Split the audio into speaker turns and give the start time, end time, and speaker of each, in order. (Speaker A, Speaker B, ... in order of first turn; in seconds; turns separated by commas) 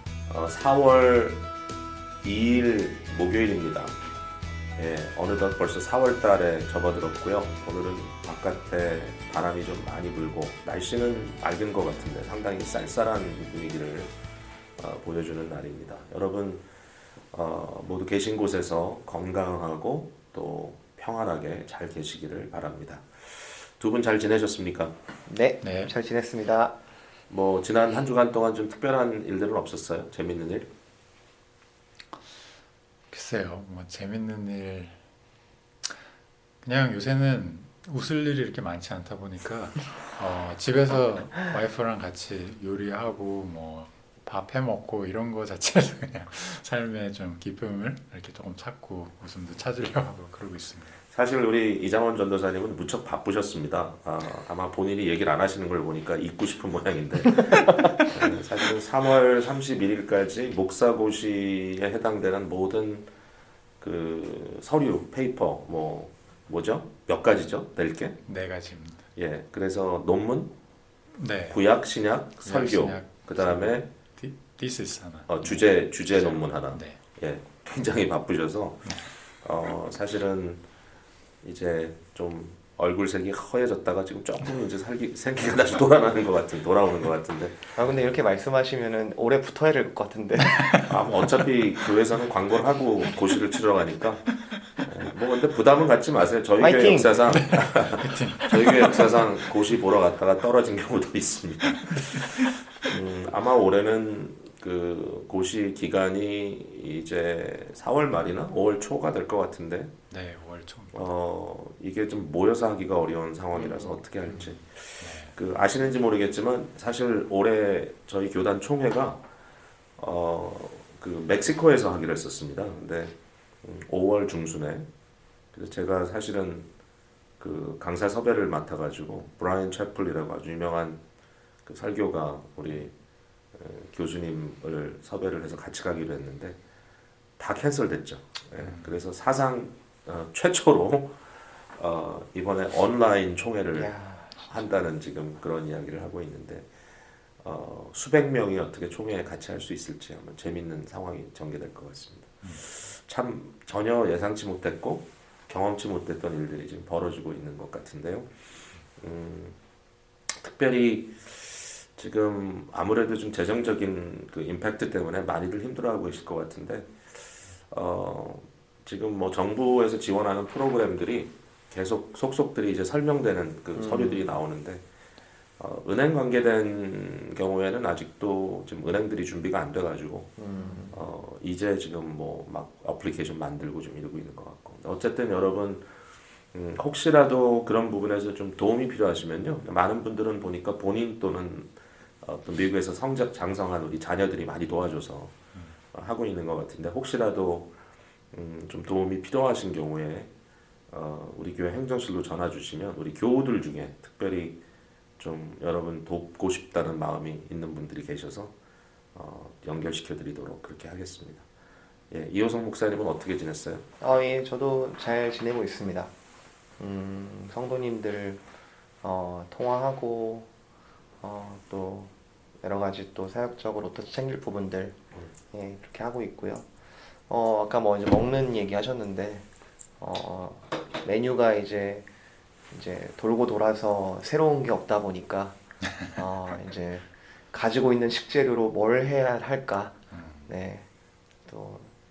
Speaker A: 0.3-1.4, Speaker A: 2.2-4.0, Speaker A: 4.8-14.1, Speaker A: 14.8-16.6, Speaker A: 17.3-24.9, Speaker B: 25.3-26.7, Speaker C: 25.6-25.9, Speaker A: 27.3-30.7, Speaker C: 33.1-35.0, Speaker C: 36.6-51.0, Speaker A: 51.1-63.1, Speaker B: 57.6-58.0, Speaker A: 63.8-68.2, Speaker C: 68.3-69.0, Speaker A: 69.2-70.5, Speaker C: 71.2-71.6, Speaker A: 71.5-73.9, Speaker C: 72.4-77.0, Speaker A: 75.3-80.6, Speaker A: 81.4-87.6, Speaker B: 87.8-90.8, Speaker C: 90.4-90.9, Speaker A: 90.9-110.0, Speaker B: 96.6-97.2, Speaker C: 97.3-99.2, Speaker C: 110.1-111.1, Speaker A: 110.9-119.2, Speaker B: 113.5-114.0, Speaker C: 114.3-115.4, Speaker A: 120.0-124.9, Speaker A: 125.5-126.7, Speaker A: 127.4-131.0, Speaker A: 131.6-132.9, Speaker A: 133.5-136.6, Speaker A: 137.4-141.2, Speaker C: 138.6-138.9, Speaker A: 141.7-146.7, Speaker B: 143.7-144.5, Speaker A: 147.4-158.3, Speaker A: 159.0-159.6, Speaker A: 160.3-166.9, Speaker A: 167.7-174.8, Speaker B: 173.7-174.2, Speaker A: 175.6-180.4, Speaker B: 180.4-181.0, Speaker A: 180.9-185.8, Speaker A: 186.5-191.7, Speaker A: 192.2-195.3, Speaker A: 195.9-197.7, Speaker A: 198.3-200.3, Speaker A: 200.9-204.6, Speaker A: 205.2-208.5, Speaker A: 209.1-211.4, Speaker A: 212.1-213.8, Speaker B: 214.0-216.1, Speaker B: 216.8-218.4, Speaker B: 219.0-220.5, Speaker B: 221.2-225.0, Speaker B: 225.5-226.7, Speaker B: 227.3-229.5, Speaker B: 230.0-232.1, Speaker B: 232.7-235.6, Speaker B: 236.2-240.8, Speaker C: 240.1-240.5, Speaker B: 241.4-241.9